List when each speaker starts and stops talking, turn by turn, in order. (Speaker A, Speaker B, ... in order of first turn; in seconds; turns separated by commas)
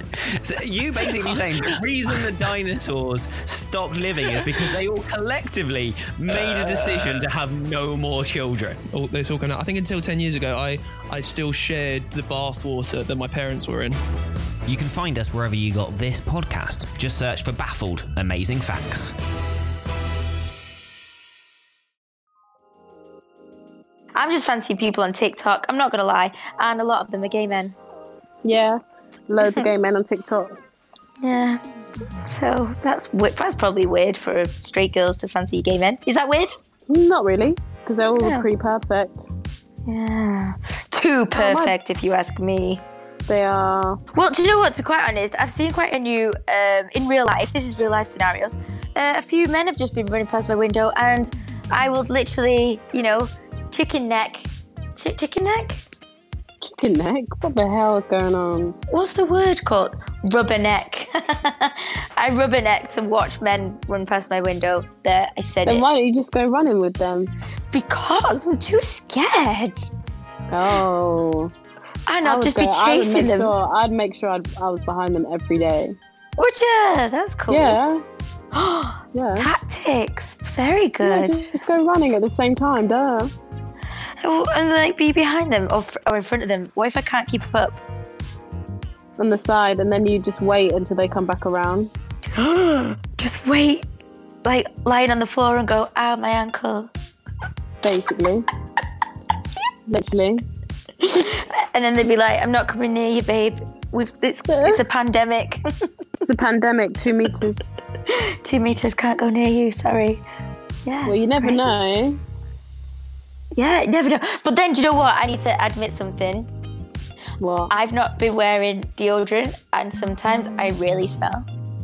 Speaker A: 0.4-8.8, Speaker B: 8.9-14.0, Speaker A: 14.7-19.1, Speaker C: 24.1-27.8, Speaker D: 28.4-30.6, Speaker C: 29.4-29.6, Speaker C: 31.2-31.6, Speaker C: 32.2-36.6, Speaker D: 36.9-39.2, Speaker C: 38.2-38.5, Speaker C: 39.9-42.8, Speaker D: 41.3-41.7, Speaker D: 43.3-44.0, Speaker C: 44.1-55.8, Speaker D: 56.6-58.8, Speaker C: 58.9-65.8, Speaker D: 65.7-67.3, Speaker C: 67.7-69.9, Speaker D: 70.5-71.5, Speaker C: 72.1-73.5, Speaker D: 72.2-76.0, Speaker C: 76.4-77.8, Speaker D: 77.5-78.0, Speaker C: 78.5-81.5, Speaker D: 79.1-79.5, Speaker D: 81.0-83.3, Speaker C: 84.2-87.8, Speaker D: 89.2-91.9, Speaker C: 92.3-93.8, Speaker C: 94.4-96.9, Speaker D: 97.8-98.5, Speaker D: 99.9-100.4, Speaker C: 101.0-105.6, Speaker D: 104.5-104.8, Speaker D: 106.2-107.7, Speaker C: 108.1-110.2, Speaker C: 110.8-111.7, Speaker D: 111.0-112.2, Speaker C: 113.5-116.5, Speaker D: 117.4-117.7, Speaker C: 117.7-121.5